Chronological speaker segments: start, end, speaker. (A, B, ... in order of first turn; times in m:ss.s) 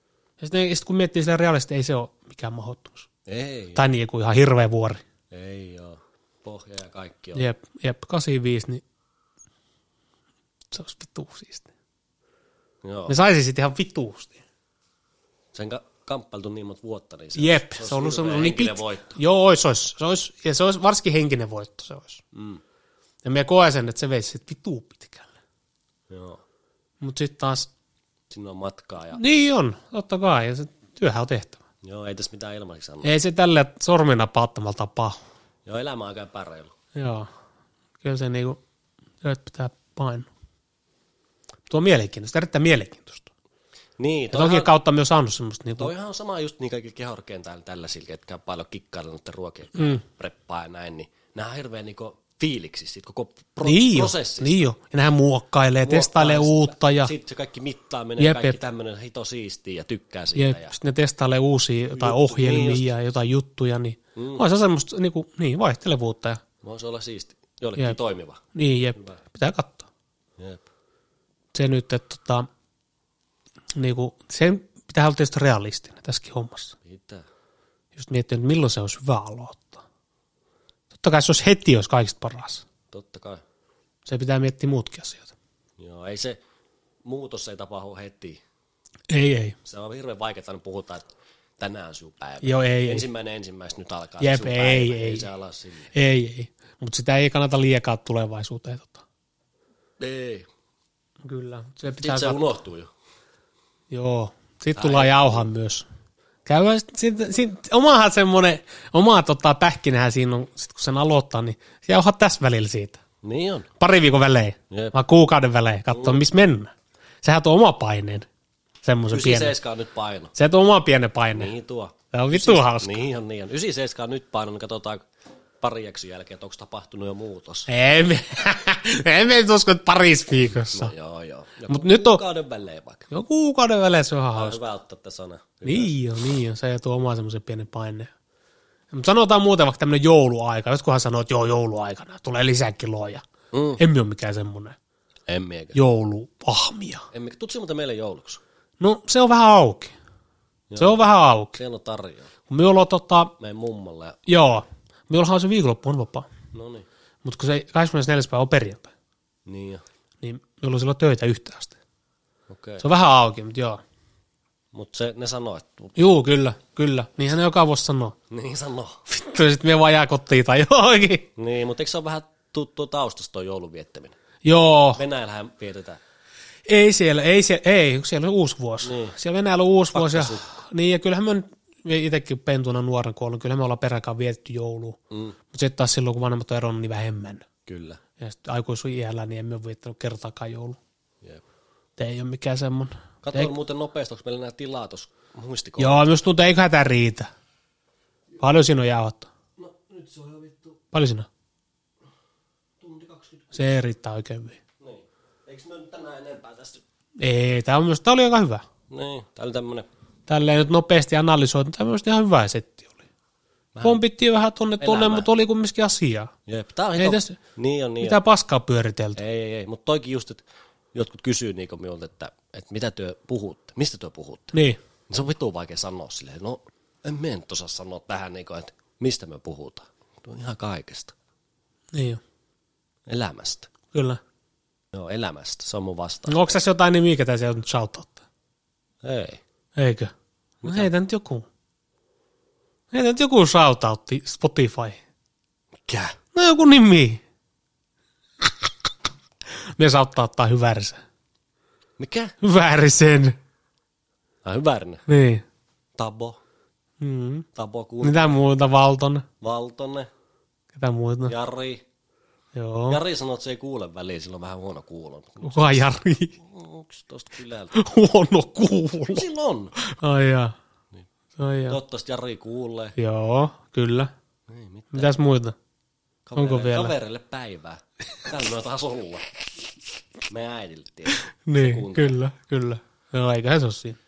0:00.4-0:03.1 A
0:03.3-0:03.8 B
0:03.8-0:05.0 A
0:05.3-0:07.4 B
0:07.4-0:08.8 A
0:10.7-0:11.7 A
0:12.8-0:13.2 B
0:13.1-0:14.4 A
0:15.5-0:19.1 B
0:17.4-0:22.2 A
0:22.3-0:22.6 B
0:23.2-0:25.3 A
0:26.1-0:26.4 B
0:27.0-0:27.7 A
0:28.3-0:29.2 B
0:29.2-0:31.6 A
0:31.8-0:33.1 B
0:33.0-0:35.2 A
0:35.7-0:36.7 B
0:37.0-0:37.3 A
0:38.0-0:38.6 A
0:39.2-0:40.3 A
0:41.7-0:43.3 A
0:44.0-0:44.7 B
0:44.3-0:45.9 A
0:45.8-0:54.6 B
0:49.8-0:50.0 A
0:53.6-0:57.1 A
0:55.8-1:00.8 B
0:58.2-0:58.6 A
1:00.4-1:06.4 A
1:01.9-1:02.9 B
1:04.2-1:04.4 B
1:06.6-1:08.4 B
1:08.5-1:09.9 A
1:10.4-1:10.6 B
1:11.5-1:12.5 A
1:13.8-1:16.8 A
1:16.8-1:17.3 B
1:18.0-1:19.8 A
1:20.9-1:22.7 A
1:22.9-1:23.4 B
1:24.1-1:25.3 A
1:25.8-1:26.4 B
1:27.0-1:28.4 B
1:29.1-1:29.6 A
1:29.6-1:31.1 B
1:31.6-1:35.9 B
1:32.4-1:33.1 A
1:34.2-1:35.3 A
1:35.9-1:39.0 A
1:40.0-1:40.5 B
1:41.2-1:42.4 A
1:42.0-1:42.9 B
1:43.9-1:45.9 A
1:44.8-1:45.5 B
1:46.5-1:53.0 A
1:53.2-1:53.7 B
1:53.8-1:58.3 A
1:55.9-1:56.2 B
1:58.8-1:59.6 A
1:59.1-2:00.3 B
2:00.4-2:01.5 A
2:01.3-2:05.1 B
2:02.1-2:03.0 A
2:05.6-2:07.7 B
2:07.7-2:10.9 A
2:10.5-2:13.1 B
2:11.7-2:12.2 A
2:13.1-2:14.6 A
2:14.4-2:15.9 B
2:15.6-2:18.1 A
2:18.9-2:23.2 A
2:23.5-2:23.8 B
2:23.8-2:24.8 A
2:25.3-2:25.8 B
2:25.7-2:27.1 A
2:27.1-2:28.4 B
2:28.8-2:29.9 A
2:30.7-2:31.0 B
2:30.8-2:31.6 A
2:31.6-2:32.3 B
2:32.5-2:33.3 A
2:33.4-2:34.2 B
2:34.3-2:36.3 A
2:36.5-2:36.9 B
2:37.2-2:38.9 A
2:39.5-2:39.8 B
2:40.2-2:41.8 A
2:42.5-2:42.8 B
2:42.8-2:43.8 A
2:44.7-2:46.0 B
2:46.0-2:48.2 A
2:48.3-2:49.0 B
2:49.1-2:51.3 A
2:51.4-2:54.2 B
2:54.4-2:55.0 A
2:55.0-2:56.0 B
2:56.7-3:05.0 A
2:58.8-2:59.2 B
2:59.9-3:00.5 B
3:05.1-3:05.4 B
3:05.5-3:07.5 A
3:07.7-3:08.0 B
3:08.2-3:10.8 A
3:12.0-3:13.5 A
3:13.2-3:16.1 B
3:15.8-3:17.3 A
3:18.4-3:19.3 A
3:19.6-3:20.8 B
3:20.9-3:21.3 A
3:22.8-3:23.6 B
3:23.5-3:24.6 A
3:24.8-3:26.8 B
3:27.2-3:28.6 A
3:28.9-3:29.9 B
3:30.3-3:32.9 A
3:33.7-3:34.0 B
3:33.8-3:36.3 A
3:34.8-3:35.3 B
3:36.5-3:38.2 B
3:37.0-3:37.4 A
3:38.0-3:39.2 A
3:39.2-3:44.5 B
3:44.5-3:44.8 A
3:45.1-3:51.1 B
3:51.9-3:52.2 A
3:53.1-3:53.7 B
3:53.9-3:54.2 A
3:54.9-3:56.6 B
3:56.3-3:58.2 A
3:59.0-3:59.4 B
3:59.8-4:00.1 A
4:00.6-4:00.9 B
4:00.6-4:01.5 A
4:02.9-4:05.0 A
4:05.8-4:06.2 B
4:06.3-4:07.2 A
4:09.8-4:11.0 A
4:12.0-4:12.4 B
4:12.4-4:13.4 A
4:14.4-4:15.0 B
4:15.1-4:15.4 A
4:16.0-4:16.4 B
4:17.0-4:17.5 A
4:17.6-4:18.3 B
4:18.0-4:19.3 A
4:19.4-4:20.1 B
4:20.7-4:21.4 A
4:21.3-4:21.8 B
4:22.6-4:23.0 A
4:22.9-4:27.7 B
4:25.4-4:26.4 A
4:27.7-4:29.3 A
4:29.1-4:29.7 B
4:29.8-4:30.6 A
4:31.4-4:31.8 A
4:31.7-4:33.0 B
4:33.0-4:34.1 A
4:34.5-4:35.1 B
4:34.9-4:35.6 A
4:36.3-4:39.2 B
4:36.4-4:36.9 A
4:40.3-4:42.2 B
4:41.4-4:44.0 A